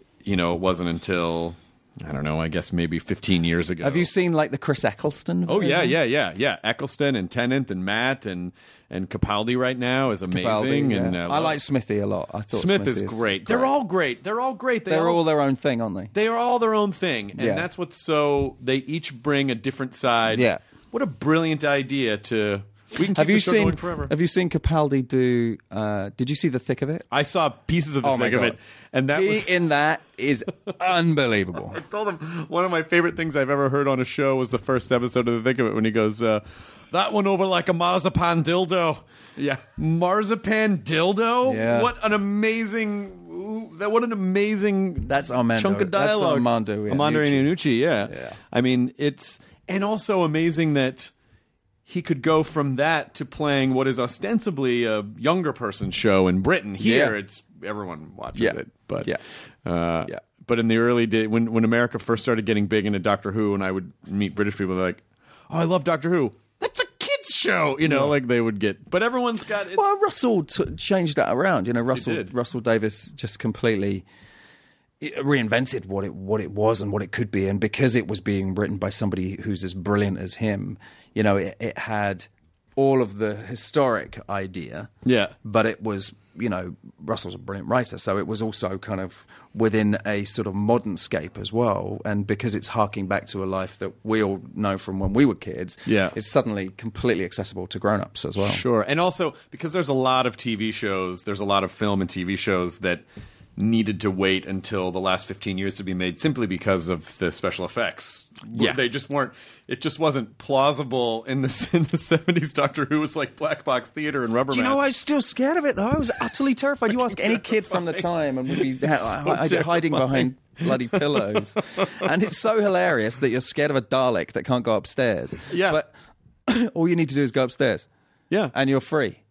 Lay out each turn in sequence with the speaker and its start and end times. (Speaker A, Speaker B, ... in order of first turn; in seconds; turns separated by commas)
Speaker A: 0.2-4.1, Speaker B: 3.8-6.0, Speaker A: 5.5-11.6, Speaker B: 10.3-13.8, Speaker A: 12.5-15.2, Speaker B: 14.9-16.1, Speaker A: 16.1-24.1, Speaker B: 17.3-17.7, Speaker B: 20.3-20.6, Speaker B: 23.1-27.1, Speaker A: 27.1-29.7, Speaker B: 28.0-28.6, Speaker B: 29.1-31.8, Speaker A: 31.7-39.0, Speaker B: 39.4-39.7, Speaker A: 39.6-51.1, Speaker B: 41.4-41.9, Speaker B: 45.0-48.4, Speaker A: 51.9-69.8, Speaker B: 56.8-57.2, Speaker B: 58.4-59.2, Speaker B: 67.8-68.2, Speaker B: 69.7-74.0, Speaker A: 71.9-72.3, Speaker B: 75.0-84.9, Speaker A: 85.1-85.3, Speaker B: 85.4-98.6, Speaker A: 95.9-96.2, Speaker A: 98.4-103.0, Speaker A: 103.6-114.8, Speaker B: 108.5-108.8, Speaker B: 114.5-125.9, Speaker A: 117.1-122.0, Speaker A: 125.5-125.8, Speaker B: 126.5-127.9, Speaker B: 128.5-129.2